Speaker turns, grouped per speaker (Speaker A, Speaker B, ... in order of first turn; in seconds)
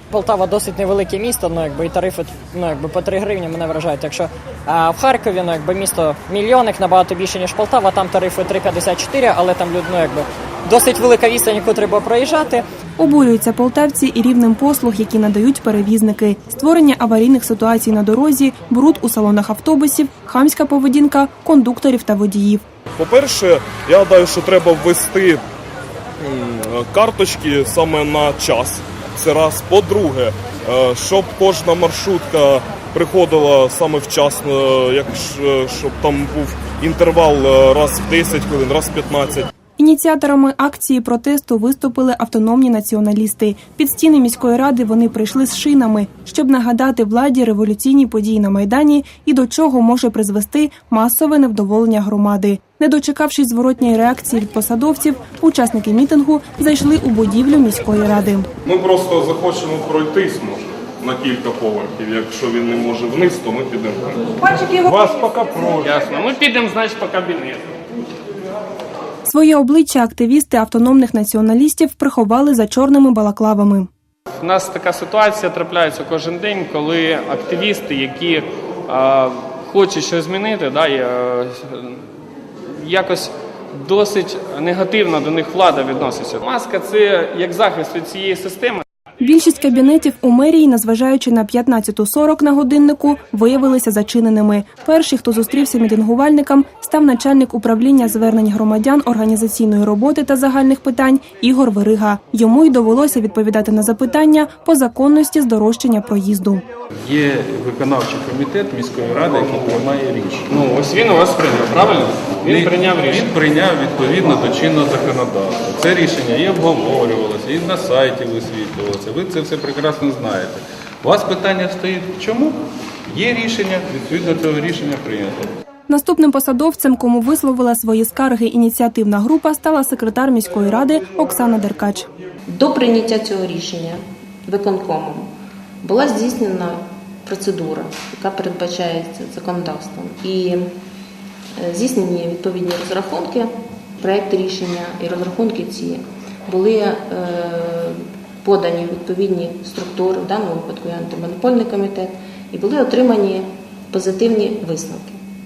Speaker A: 0.1-12.7
Speaker B: 13.0-22.6, 39.8-58.5, 69.3-73.9, 89.2-106.6, 125.9-132.1
Speaker C: 23.0-25.4, 26.2-39.5, 58.6-65.9
Speaker D: 65.8-67.7, 74.4-82.0, 82.8-88.8, 110.5-113.3
Speaker E: 107.1-110.5, 112.4-122.6, 123.1-125.5
Speaker F: 132.5-135.3, 135.8-140.7, 141.6-155.2